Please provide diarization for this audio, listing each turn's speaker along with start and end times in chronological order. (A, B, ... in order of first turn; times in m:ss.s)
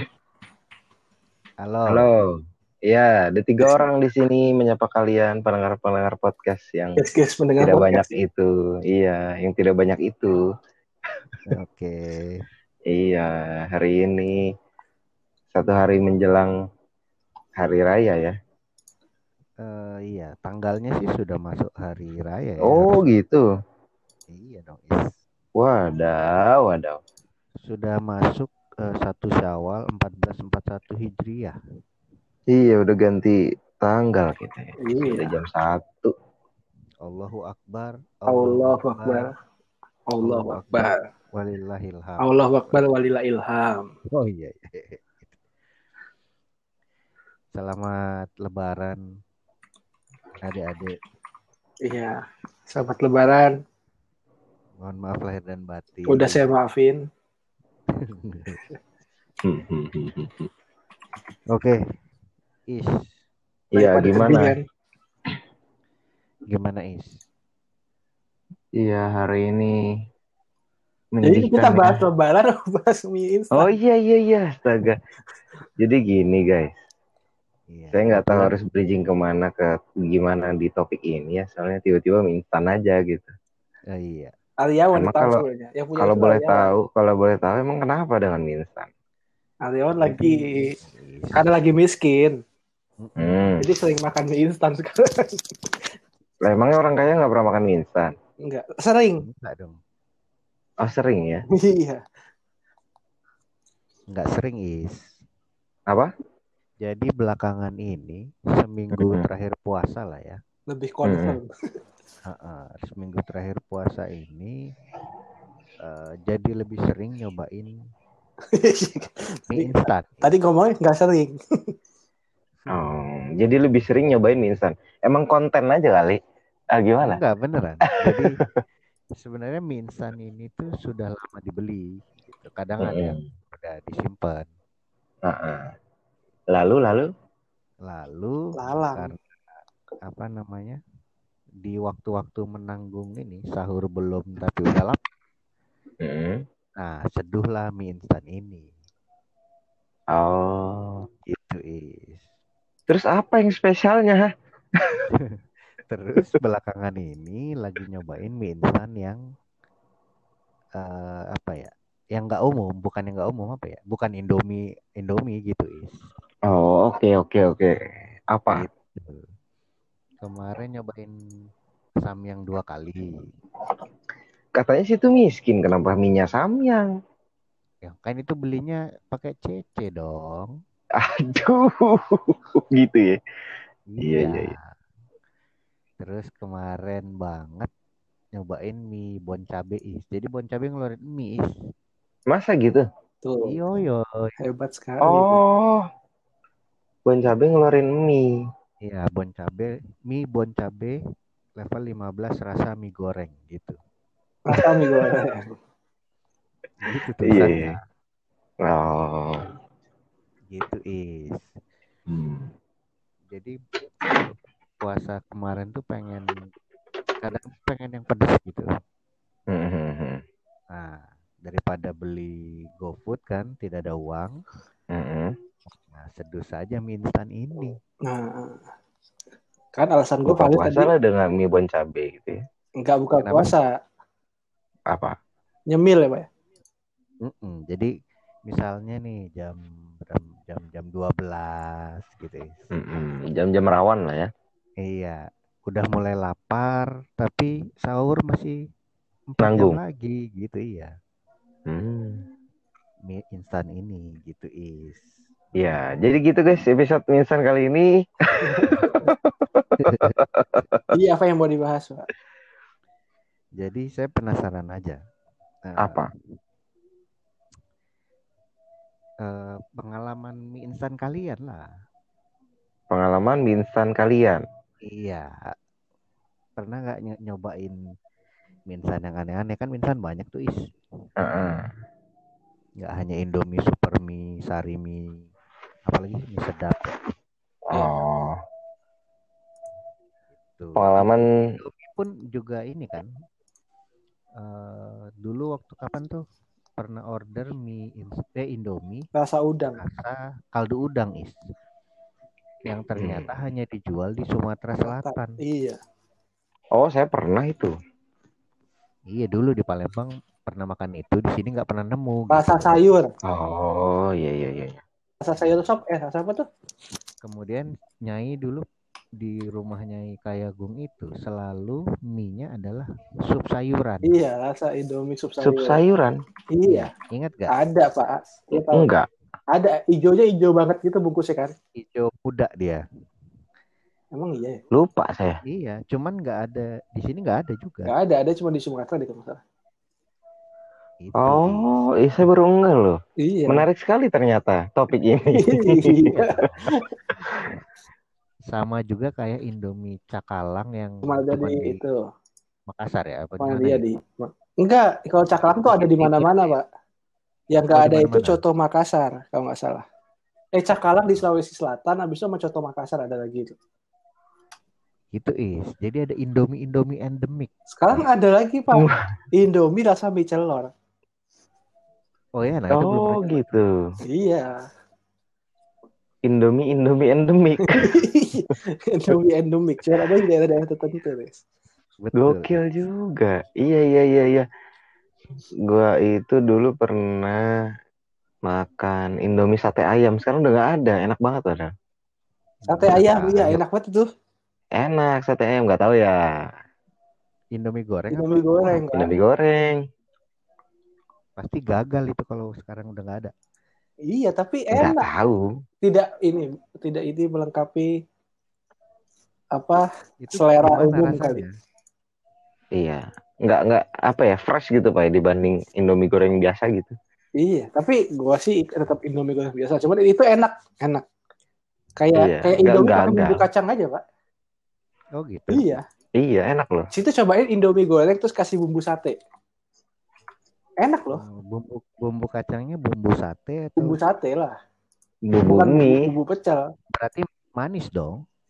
0:01.6-0:02.1 A
0:01.9-0:07.0 B
0:07.0-0:08.0 C
0:07.6-0:10.4 B
0:11.5-0:12.0 A
0:12.9-0:14.4 B
0:15.5-0:16.5 B
0:17.6-0:18.3 B
0:19.6-0:23.0 A
0:22.6-0:23.4 B
0:24.3-0:25.1 A
0:25.5-0:27.0 B
0:27.6-0:31.5 A
0:32.5-0:36.1 B
0:34.8-0:35.3 C
0:37.0-0:39.3 A
0:38.3-0:39.3 C
0:40.1-0:41.0 C
0:40.2-0:42.8 A
0:42.2-0:43.9 C
0:44.1-0:45.3 A
0:47.5-0:49.0 A
0:50.4-0:51.0 A
0:51.8-0:53.5 C
0:54.8-0:56.4 A
0:56.1-0:57.0 C
0:57.9-0:58.6 A
0:59.4-1:00.5 B
1:01.5-1:01.8 A
1:02.7-1:03.1 A
1:03.7-1:04.6 C
1:03.7-1:04.6 B
1:06.5-1:07.2 A
1:08.8-1:09.8 B
1:11.1-1:12.0 B
1:11.2-1:13.7 C
1:13.5-1:15.0 B
1:15.8-1:16.7 B
1:17.7-1:18.5 A
1:17.9-1:23.3 B
1:23.9-1:24.3 A
1:24.6-1:26.6 C
1:24.9-1:25.4 B
1:26.0-1:28.9 B
1:29.6-1:30.6 C
1:30.0-1:31.4 A
1:31.3-1:32.4 C
1:33.0-1:33.3 A
1:33.2-1:33.6 B
1:33.6-1:35.4 C
1:36.4-1:38.1 B
1:38.4-1:39.2 C
1:39.2-1:39.8 A
1:40.8-1:41.4 B
1:41.5-1:42.0 C
1:44.1-1:45.0 A
1:46.8-1:50.4 A
1:50.7-1:51.5 C
1:51.0-1:51.4 B
1:52.3-1:54.7 A
1:55.8-1:57.8 A
1:58.5-2:01.7 C
1:59.5-2:00.3 A
2:02.7-2:06.2 B
2:06.7-2:07.2 B
2:07.0-2:08.4 A
2:08.0-2:08.3 B
2:09.2-2:14.5 A
2:12.8-2:13.2 B
2:15.2-2:15.7 B
2:16.5-2:17.1 B
2:17.8-2:19.2 A
2:18.6-2:19.1 C
2:20.0-2:20.8 A
2:21.6-2:25.0 A
2:26.0-2:26.4 B
2:26.8-2:28.7 A
2:30.1-2:31.0 B
2:31.3-2:32.2 A
2:32.9-2:34.3 B
2:35.1-2:39.2 A
2:40.8-2:46.0 A
2:46.5-2:48.6 B
2:48.5-2:49.3 A
2:50.2-2:51.1 A
2:52.0-2:53.3 A
2:54.6-2:56.9 B
2:57.8-3:00.6 A
3:01.0-3:03.2 B
3:03.9-3:04.7 A
3:04.0-3:04.5 B
3:06.0-3:07.7 A
3:08.3-3:11.5 A
3:12.3-3:12.8 B
3:13.2-3:13.6 C
3:13.4-3:14.3 A
3:14.4-3:15.4 C
3:15.0-3:15.8 B
3:17.0-3:18.4 B
3:18.8-3:21.0 A
3:21.6-3:23.8 A
3:24.5-3:25.6 C
3:24.5-3:25.1 B
3:26.8-3:27.8 A
3:27.2-3:27.7 B
3:28.6-3:29.5 B
3:30.5-3:31.4 A
3:32.1-3:32.5 B
3:33.3-3:33.5 A
3:34.8-3:36.4 A
3:37.2-3:38.6 A
3:39.5-3:40.2 B
3:40.7-3:44.4 A
3:44.9-3:45.3 B
3:45.7-3:47.8 A
3:48.0-3:48.6 C
3:49.7-3:50.9 C
3:50.2-3:52.4 B
3:52.8-3:53.7 C
3:53.2-3:53.5 A
3:54.9-3:55.1 B
3:55.7-3:56.3 C
3:57.2-3:57.9 A
3:58.5-4:02.6 A
4:02.7-4:04.3 B
4:04.8-4:08.6 A
4:09.3-4:10.9 A
4:09.4-4:09.8 B
4:11.7-4:12.2 B
4:13.1-4:15.0 A
4:15.6-4:20.9 B
4:18.4-4:18.8 C
4:19.8-4:20.2 A
4:20.9-4:22.1 C
4:23.6-4:25.0 A
4:25.6-4:26.0 A
4:25.8-4:26.1 B
4:29.2-4:31.7 A
4:32.9-4:34.4 B
4:34.8-4:35.5 A
4:36.6-4:37.8 A
4:38.7-4:40.6 A
4:41.2-4:41.7 B
4:42.8-4:45.2 A
4:45.9-4:47.0 A
4:47.7-4:48.4 B
4:50.6-4:53.1 A
4:50.8-4:51.2 B
4:54.4-4:56.2 A
4:56.8-4:59.0 A
4:59.1-4:59.8 C
4:59.8-5:01.4 A
5:02.6-5:05.4 A
5:03.0-5:03.3 B
5:04.8-5:05.8 C
5:06.7-5:07.7 B
5:09.1-5:12.8 A
5:12.3-5:13.1 C
5:13.3-5:14.8 B
5:15.2-5:16.4 C
5:17.2-5:18.6 A
5:19.2-5:24.2 A
5:24.0-5:25.8 C
5:25.4-5:26.2 B
5:26.5-5:26.9 C
5:26.6-5:27.6 A
5:27.5-5:28.9 C
5:28.5-5:29.1 B
5:29.5-5:31.5 C
5:31.8-5:32.8 A
5:34.1-5:34.6 C
5:34.7-5:35.4 B
5:35.4-5:37.9 A
5:37.8-5:39.4 C
5:41.0-5:41.7 A
5:41.2-5:46.3 B
5:43.2-5:43.6 C
5:45.4-5:46.8 C
5:46.0-5:46.8 A
5:48.5-5:51.8 A
5:51.0-5:52.0 C
5:52.7-5:53.8 A
5:53.4-5:56.6 C
5:55.6-5:56.5 A
5:57.5-5:59.8 C
5:57.7-5:58.4 A
6:00.5-6:03.5 C
6:05.1-6:08.0 A
6:07.7-6:10.7 C
6:08.7-6:09.0 B
6:12.4-6:13.4 A
6:12.7-6:13.7 B
6:14.0-6:14.6 C
6:16.2-6:17.9 B
6:17.6-6:21.4 C
6:22.0-6:22.6 A
6:22.2-6:24.4 B
6:25.7-6:27.4 B
6:28.4-6:31.7 B
6:32.6-6:33.6 A
6:32.7-6:34.0 C
6:34.8-6:36.5 B
6:37.5-6:38.8 A
6:38.1-6:39.1 C
6:38.9-6:39.8 B
6:41.4-6:43.3 A
6:44.1-6:45.0 C
6:44.7-6:45.4 B
6:45.8-6:47.9 C
6:49.5-6:51.4 C
6:50.2-6:51.5 A
6:52.8-6:57.0 B
6:57.4-7:01.0 C
7:02.0-7:04.0 C
7:02.1-7:03.4 B
7:05.2-7:05.8 A
7:05.5-7:05.8 C
7:06.2-7:06.9 B
7:06.9-7:09.2 C
7:10.8-7:11.2 C
7:11.1-7:14.0 A
7:13.8-7:14.5 C
7:15.2-7:16.0 B
7:15.5-7:16.7 C
7:16.9-7:18.2 A